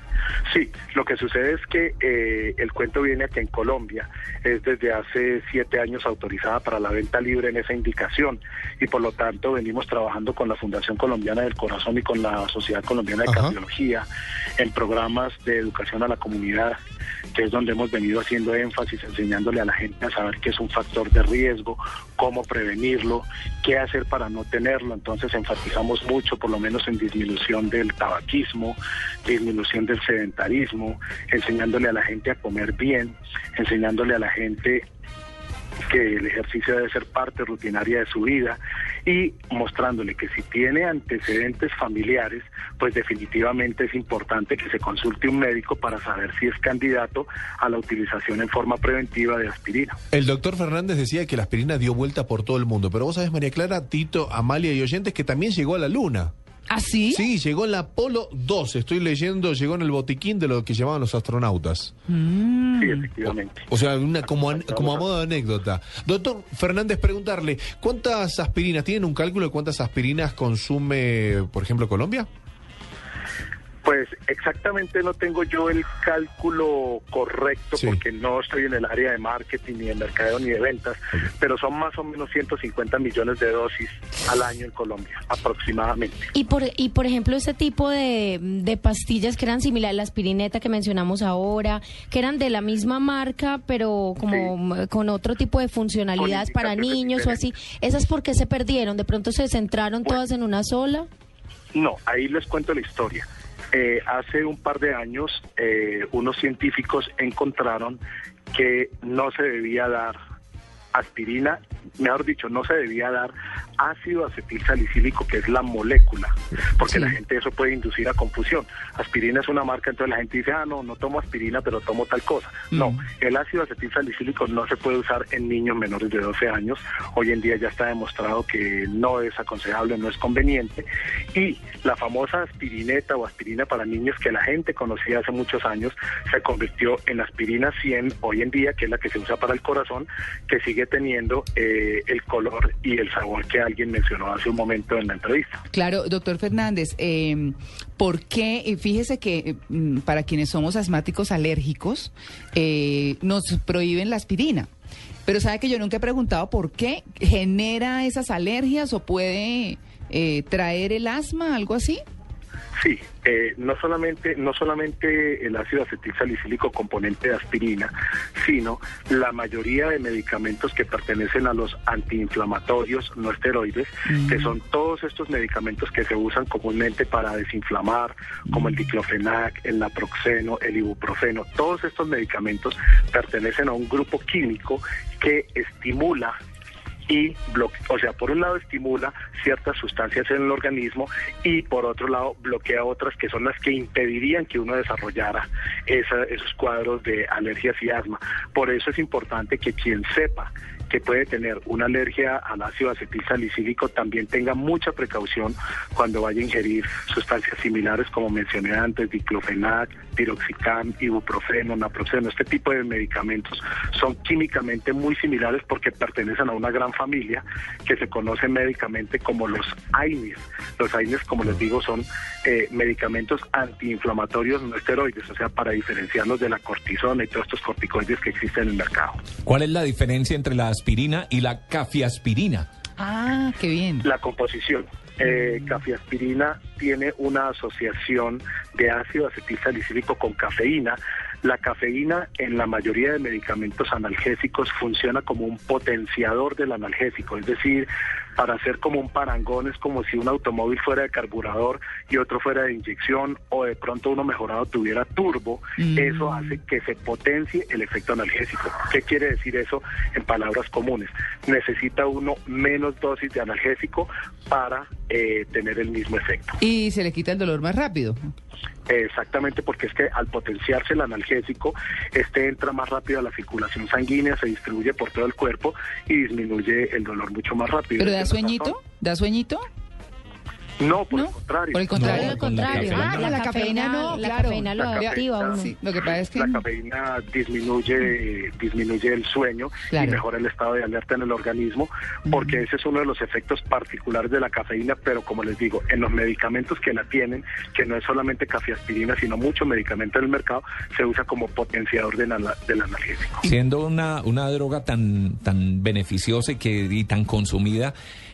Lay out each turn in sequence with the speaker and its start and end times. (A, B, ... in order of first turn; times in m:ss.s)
0:00.5-0:14.0 A
0:13.3-0:13.5 B
0:14.6-0:16.8 A
0:17.3-0:34.8 A
0:35.9-0:50.0 A
0:50.1-0:56.3 B
0:56.7-0:57.2 C
0:57.1-1:01.9 B
1:02.1-1:03.1 C
1:02.8-1:03.7 A
1:03.7-1:12.3 B
1:04.2-1:05.1 A
1:13.8-1:26.3 A
1:26.3-1:41.1 D
1:34.3-1:34.5 A
1:36.1-1:37.5 A
1:41.7-1:48.0 A
1:48.5-1:50.2 A
1:50.9-2:25.6 A
1:56.8-1:57.2 C
2:02.7-2:03.0 C
2:25.7-2:34.7 C
2:35.2-2:42.0 C
2:42.8-3:06.4 A
2:54.1-2:54.5 C
3:07.1-3:49.2 A
3:49.4-3:52.7 E
3:53.0-3:54.0 C
3:54.0-4:26.6 A
4:15.8-4:16.5 C
4:26.6-4:28.3 C
4:28.9-4:38.8 A
4:38.0-4:39.6 C
4:40.8-4:42.2 A
4:41.1-4:46.6 C
4:41.9-4:43.4 E
4:42.0-4:45.7 D
4:44.8-5:03.5 A
4:49.9-4:50.2 C
4:52.3-4:52.6 C
5:03.4-5:07.9 E